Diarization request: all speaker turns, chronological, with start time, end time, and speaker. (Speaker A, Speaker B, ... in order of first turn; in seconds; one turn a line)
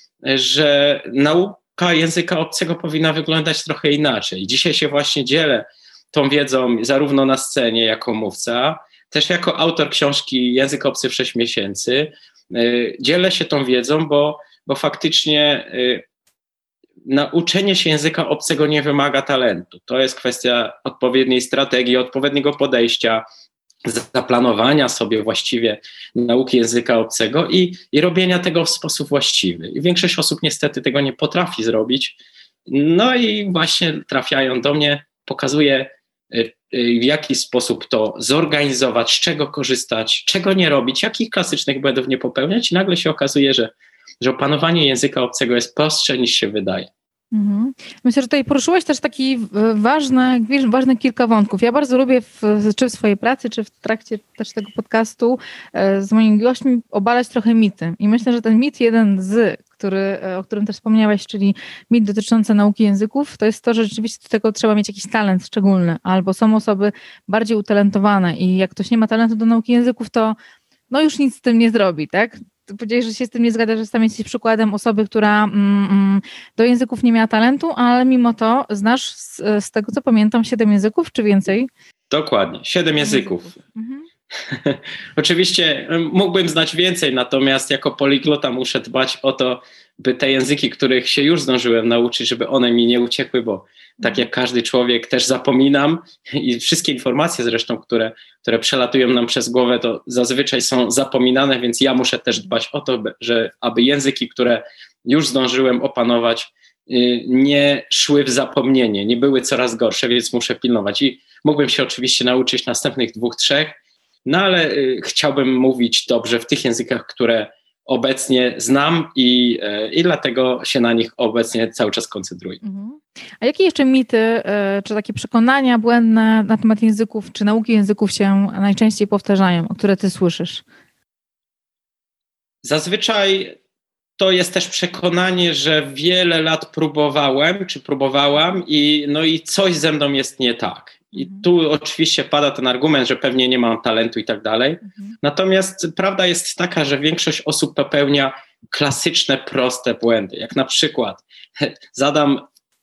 Speaker A: 0.2-16.0
Speaker A: 17.1-23.2
Speaker A: 23.8-46.9
Speaker B: 47.3-70.3
Speaker B: 70.9-81.7
Speaker A: 82.1-83.5
Speaker B: 83.0-84.0
Speaker A: 84.4-122.6
Speaker B: 122.6-130.6
Speaker A: 132.6-133.6
Speaker A: 134.2-152.4
Speaker B: 141.1-141.4